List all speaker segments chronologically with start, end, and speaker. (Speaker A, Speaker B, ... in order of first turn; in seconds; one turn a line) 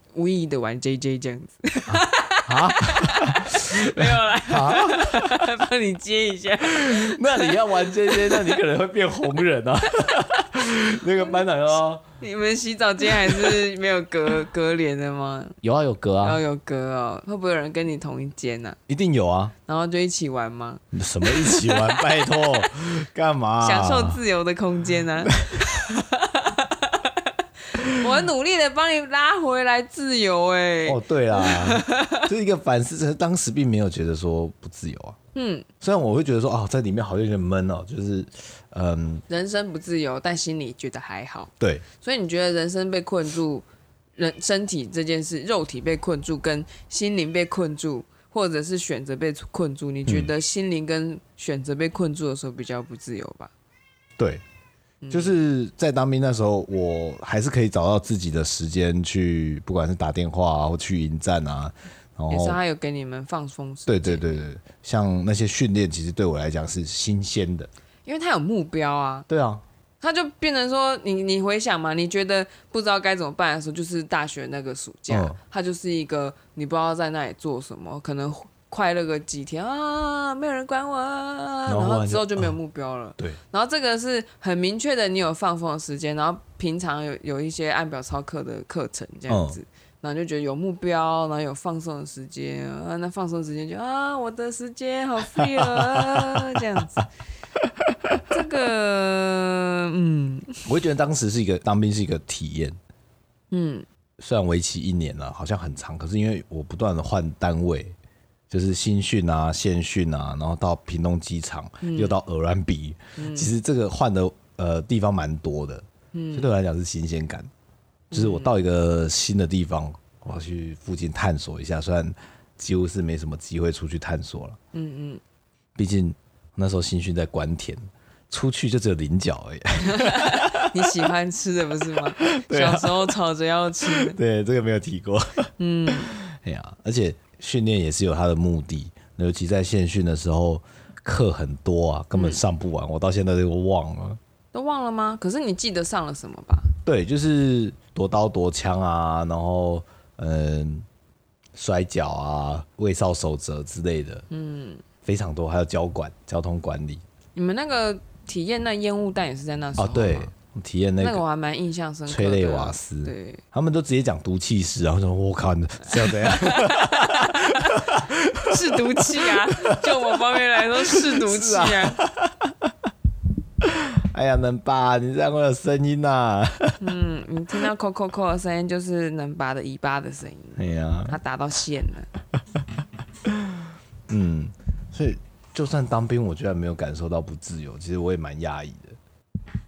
Speaker A: 0.1-8.5
Speaker B: 1.9-5.5
Speaker B: 6.7-12.0
Speaker A: 12.2-15.6
Speaker B: 13.1-13.6
Speaker B: 15.6-16.4
Speaker A: 16.2-18.8
Speaker B: 18.9-19.5
Speaker A: 19.7-22.7
Speaker B: 20.9-24.2
Speaker A: 23.6-32.3
Speaker B: 30.9-35.2
Speaker A: 35.4-35.7
Speaker B: 35.8-39.2
Speaker A: 39.3-43.7
Speaker B: 41.6-41.9
Speaker A: 44.2-53.5
Speaker B: 50.1-50.3
Speaker B: 54.2-54.4
Speaker A: 55.0-55.4
Speaker B: 55.1-62.6
Speaker A: 62.3-64.5
Speaker B: 63.9-67.7
Speaker A: 68.1-69.3
Speaker B: 69.3-69.6
Speaker A: 70.0-97.1
Speaker B: 75.1-75.4
Speaker B: 81.7-82.5
Speaker B: 89.3-89.6
Speaker B: 95.4-96.6
Speaker A: 98.3-100.7
Speaker B: 100.7-102.8
Speaker A: 103.5-103.9
Speaker B: 104.2-108.0
Speaker B: 108.5-117.5
Speaker A: 111.8-112.2
Speaker A: 113.2-113.5
Speaker A: 116.1-116.5
Speaker A: 118.1-118.5
Speaker B: 118.1-124.6
Speaker A: 124.7-125.2
Speaker B: 125.8-131.0
Speaker A: 129.8-134.2
Speaker B: 132.2-133.1
Speaker B: 133.9-144.2
Speaker A: 135.6-136.2
Speaker A: 142.1-142.4
Speaker A: 144.5-146.7
Speaker B: 146.8-150.9
Speaker B: 151.6-154.3
Speaker A: 154.3-154.8
Speaker B: 155.0-157.0
Speaker A: 157.3-160.3
Speaker B: 159.8-161.2
Speaker A: 161.0-163.4
Speaker B: 162.1-172.9
Speaker A: 165.9-167.9
Speaker A: 168.5-172.0
Speaker B: 173.6-176.8
Speaker A: 176.8-182.1
Speaker B: 180.6-181.2
Speaker B: 183.3-189.0